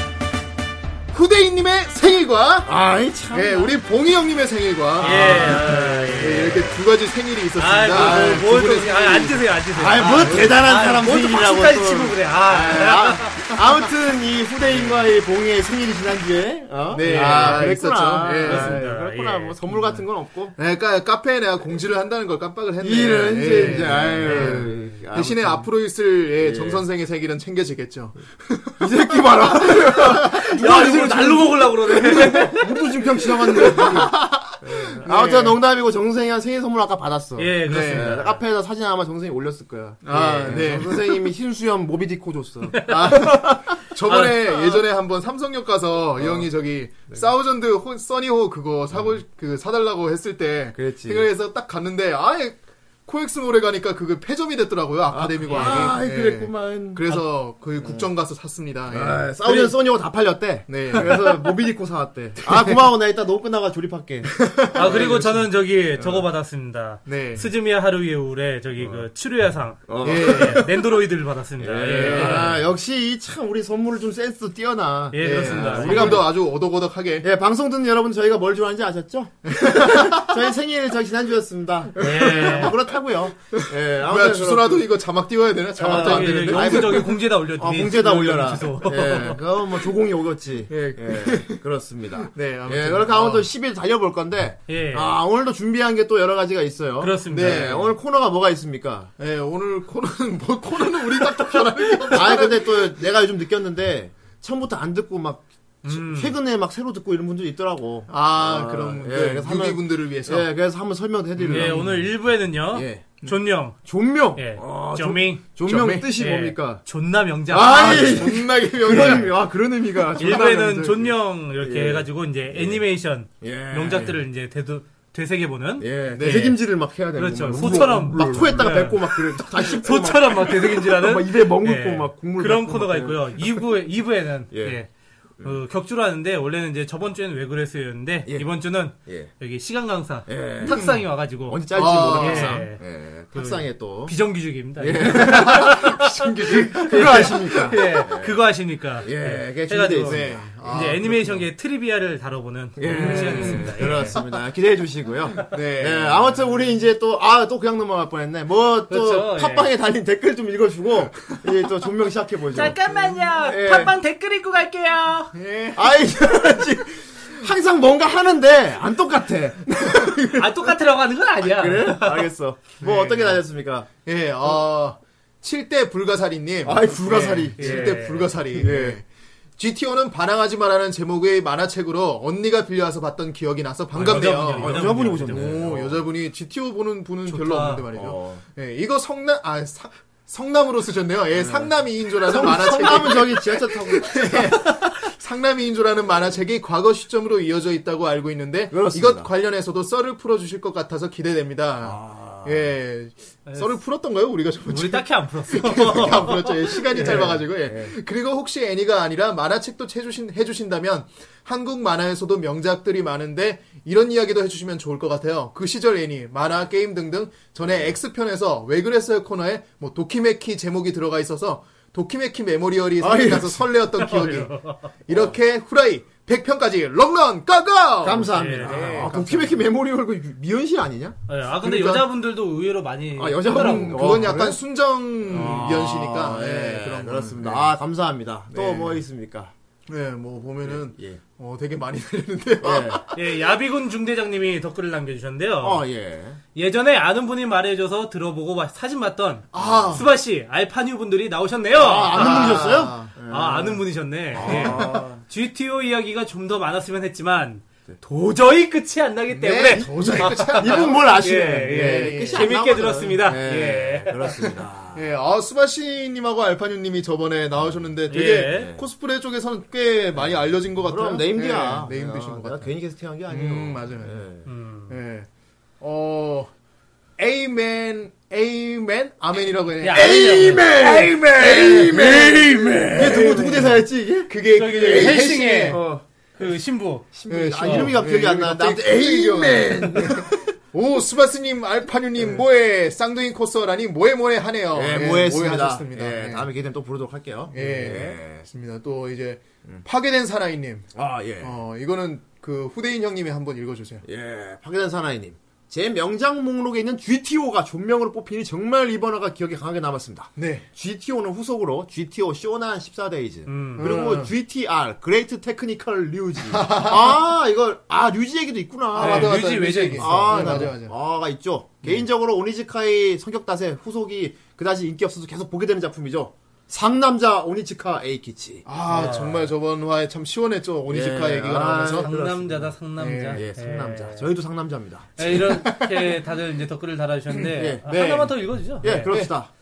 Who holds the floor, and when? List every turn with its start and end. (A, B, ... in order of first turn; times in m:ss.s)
0:01.1-0:02.7 A
0:02.6-0:03.8 B
0:03.3-0:09.4 A
0:05.0-0:06.5 B
0:05.0-0:06.8 C
0:07.6-0:13.5 C
0:07.9-0:08.8 B
0:09.7-0:20.6 B
0:16.9-0:18.8 A
0:17.0-0:17.8 C
0:18.4-0:19.6 C
0:19.7-0:20.0 A
0:20.6-0:28.9 A
0:22.8-0:25.7 B
0:24.2-0:25.0 C
0:26.4-0:26.8 B
0:28.8-0:43.6 B
0:29.6-0:30.9 A
0:30.3-0:32.7 C
0:33.2-0:35.6 A
0:37.4-0:38.4 C
0:37.7-0:38.3 A
0:40.0-0:41.3 A
0:42.8-0:43.1 C
0:42.8-0:59.8 A
0:44.1-0:44.8 C
0:46.2-0:46.5 B
0:50.8-0:51.3 B
0:55.1-0:57.0 B
0:55.5-0:55.9 C
0:57.8-0:58.1 B
0:58.9-1:05.4 B
1:00.7-1:01.6 A
1:02.4-1:02.9 A
1:04.6-1:05.3 A
1:04.7-1:12.5 C
1:06.0-1:06.2 B
1:07.1-1:07.5 A
1:09.9-1:10.8 B
1:10.0-1:10.7 A
1:11.6-1:16.3 B
1:12.0-1:12.6 A
1:15.1-1:16.2 C
1:15.2-1:17.3 A
1:17.2-1:24.8 B
1:19.5-1:20.5 A
1:22.0-1:22.7 C
1:23.5-1:27.2 A
1:25.8-1:39.1 B
1:25.9-1:29.4 C
1:30.7-1:31.6 A
1:32.2-1:33.5 A
1:34.7-1:35.2 C
1:37.0-1:37.8 C
1:37.3-1:38.0 A
1:39.2-1:42.9 A
1:42.1-1:52.0 B
1:45.8-1:46.4 C
1:48.1-1:50.5 A
1:51.4-1:52.0 A
1:51.5-1:53.8 C
1:52.7-1:53.1 B
1:53.8-1:56.8 B
1:54.4-1:55.5 C
1:55.7-1:56.1 A
1:56.1-1:58.4 C
1:57.5-2:02.8 B
1:57.7-1:59.4 A
1:58.9-1:59.2 C
2:00.2-2:05.9 C
2:03.4-2:04.1 B
2:05.8-2:13.6 B
2:06.1-2:06.6 A
2:07.2-2:14.9 C
2:14.5-2:14.8 B
2:15.4-2:34.2 C
2:18.3-2:19.3 B
2:20.3-2:21.0 B
2:21.5-2:24.2 B
2:21.7-2:22.7 A
2:24.8-2:25.8 B
2:25.0-2:27.8 A
2:26.8-2:28.4 B
2:29.0-2:30.5 B
2:30.0-2:31.4 A
2:32.8-2:42.8 B
2:33.0-2:33.7 A
2:35.4-2:36.4 A
2:38.9-2:39.7 C
2:42.5-2:45.3 C
2:43.4-2:44.0 B
2:45.3-2:46.6 A
2:45.7-2:50.7 B
2:50.4-2:52.3 C
2:51.4-2:53.9 B
2:52.8-2:53.4 A
2:54.0-2:59.1 A
2:56.6-2:58.0 B
2:57.6-2:58.4 C
2:58.5-2:59.0 B
2:59.6-3:44.5 A
3:03.9-3:05.5 C
3:04.0-3:06.0 B
3:07.3-3:07.8 C
3:07.9-3:08.4 B
3:11.3-3:14.4 B
3:18.7-3:19.3 B
3:21.8-3:22.6 B
3:23.5-3:23.7 C
3:24.7-3:27.2 C
3:26.9-3:27.9 B
3:43.0-3:43.6 B
3:44.0-3:44.9 C
3:45.1-3:49.6 A
3:48.0-3:51.2 B
3:48.3-3:49.0 C
3:51.3-3:54.3 C
3:51.6-3:52.1 A
3:53.2-3:54.6 B
3:53.5-3:57.7 A
3:55.3-3:59.5 B
3:55.3-3:55.9 C
3:58.5-3:59.0 A
3:59.9-4:03.2 A
4:00.6-4:01.2 B
4:02.6-4:03.0 B
4:03.2-4:05.8 C
4:05.6-4:06.4 B
4:06.6-4:12.7 C
4:09.5-4:10.1 A
4:09.6-4:10.0 B
4:11.7-4:15.2 B
4:12.1-4:13.1 A
4:13.3-4:24.5 C
4:14.4-4:15.0 A
4:19.3-4:22.5 A
4:19.7-4:25.1 B
4:24.9-4:32.7 A
4:28.1-4:28.7 C
4:28.5-4:28.8 B
4:30.2-4:34.5 B
4:33.3-4:34.2 A
4:34.5-4:35.0 C
4:34.9-4:35.3 A
4:35.8-4:36.5 A
4:37.2-4:45.8 A
4:39.8-4:41.1 C
4:39.9-4:46.0 B
4:42.6-4:43.0 C
4:44.5-4:45.8 C
4:46.4-4:47.9 C
4:47.1-4:50.4 B
4:47.3-4:56.5 A
4:54.7-4:58.4 B
4:57.5-5:04.0 A
5:01.0-5:01.6 B
5:04.0-5:28.7 B
5:10.4-5:10.7 A
5:13.5-5:13.9 C
5:13.8-5:14.3 A
5:16.5-5:17.2 A
5:19.0-5:20.9 A
5:19.0-5:20.7 C
5:28.7-5:32.1 A
5:28.9-5:29.5 C
5:30.9-5:32.7 B
5:32.0-5:34.3 C
5:33.0-5:33.4 A
5:33.3-5:35.4 B
5:35.2-5:39.1 C
5:35.4-5:36.2 A
5:37.5-5:37.9 B
5:37.9-5:38.3 A
5:38.8-5:39.5 B
5:39.0-5:39.3 A